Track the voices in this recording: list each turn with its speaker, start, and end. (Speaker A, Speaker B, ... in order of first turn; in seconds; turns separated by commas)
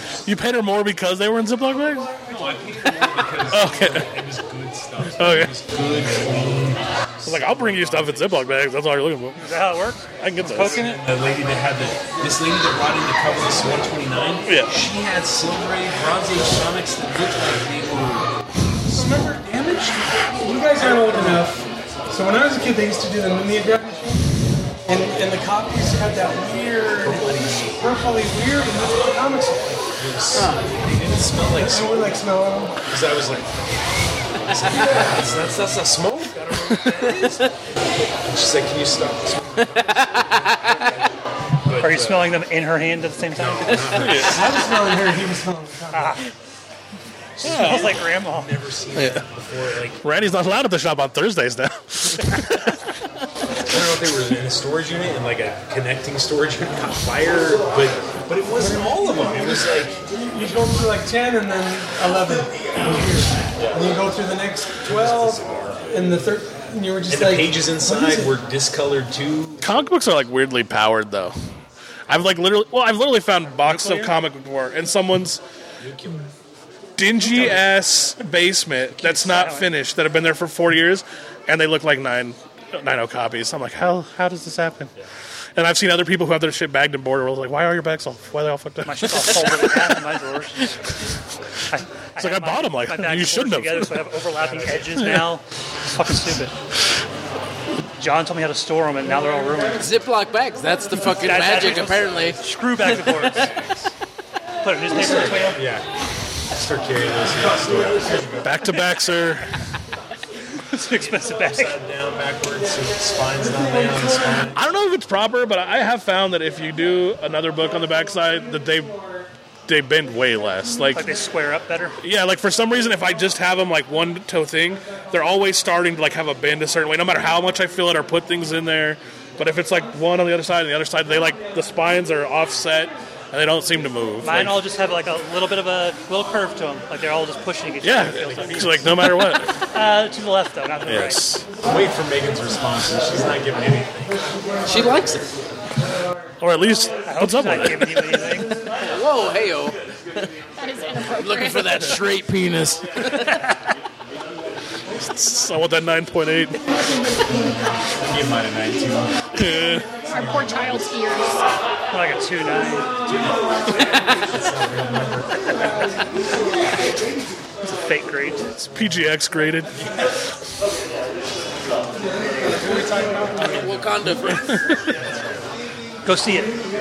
Speaker A: 0.2-2.1, Speaker B: 2.2-8.5, Speaker A: 3.5-4.1, Speaker A: 5.2-5.5, Speaker A: 7.2-9.5, Speaker C: 9.4-10.9, Speaker A: 10.2-10.8, Speaker B: 10.6-18.3, Speaker D: 18.9-24.3, Speaker B: 18.9-20.1, Speaker B: 20.8-21.4, Speaker D: 24.9-29.9, Speaker B: 27.0-27.9, Speaker B: 29.9-32.1, Speaker E: 30.3-30.6, Speaker D: 31.5-32.8, Speaker B: 32.8-33.5, Speaker B: 34.4-37.5, Speaker B: 38.2-40.4, Speaker E: 39.8-40.8, Speaker B: 41.6-42.4, Speaker C: 41.8-44.1, Speaker B: 43.3-44.5, Speaker A: 44.0-44.4, Speaker D: 44.2-46.2, Speaker C: 45.9-46.3, Speaker B: 47.4-50.0, Speaker A: 47.4-48.0, Speaker C: 47.4-48.5, Speaker A: 50.0-52.8, Speaker B: 53.6-60.0, Speaker D: 58.5-59.4, Speaker D: 60.3-68.3, Speaker B: 63.5-63.8, Speaker B: 64.8-66.0, Speaker B: 67.1-69.7, Speaker A: 69.6-71.3, Speaker A: 72.1-75.4, Speaker C: 73.6-74.1, Speaker B: 75.8-76.3, Speaker A: 77.0-84.9, Speaker C: 79.0-79.7, Speaker A: 85.5-89.7, Speaker C: 88.8-90.5, Speaker C: 91.7-96.5, Speaker A: 92.2-94.0, Speaker B: 94.4-94.9, Speaker A: 94.7-95.3, Speaker C: 98.0-99.9, Speaker E: 99.8-102.4, Speaker C: 101.1-103.5, Speaker B: 102.8-103.9, Speaker C: 104.6-105.6, Speaker B: 104.9-105.8, Speaker B: 106.5-108.7, Speaker A: 108.4-109.5, Speaker C: 110.7-111.7, Speaker B: 111.0-114.6, Speaker A: 114.5-119.0, Speaker A: 119.7-121.0, Speaker C: 120.9-122.0, Speaker A: 122.0-134.6, Speaker C: 134.2-138.8, Speaker A: 137.8-139.5, Speaker B: 138.3-138.8, Speaker C: 139.7-141.4, Speaker A: 140.8-141.4, Speaker B: 141.6-144.2, Speaker E: 144.6-145.3, Speaker A: 146.4-148.3, Speaker C: 147.1-148.5, Speaker E: 148.7-150.2, Speaker F: 150.6-152.0, Speaker E: 151.2-153.2, Speaker A: 155.0-156.6, Speaker B: 157.3-159.3, Speaker A: 159.3-159.9, Speaker F: 159.4-161.4, Speaker B: 160.1-160.5, Speaker C: 161.9-162.9, Speaker B: 163.1-165.5, Speaker C: 167.7-168.5, Speaker A: 168.6-169.7, Speaker B: 169.7-170.2, Speaker B: 172.4-174.2, Speaker E: 173.4-174.6, Speaker A: 174.3-174.8, Speaker B: 174.9-175.5, Speaker C: 176.0-176.6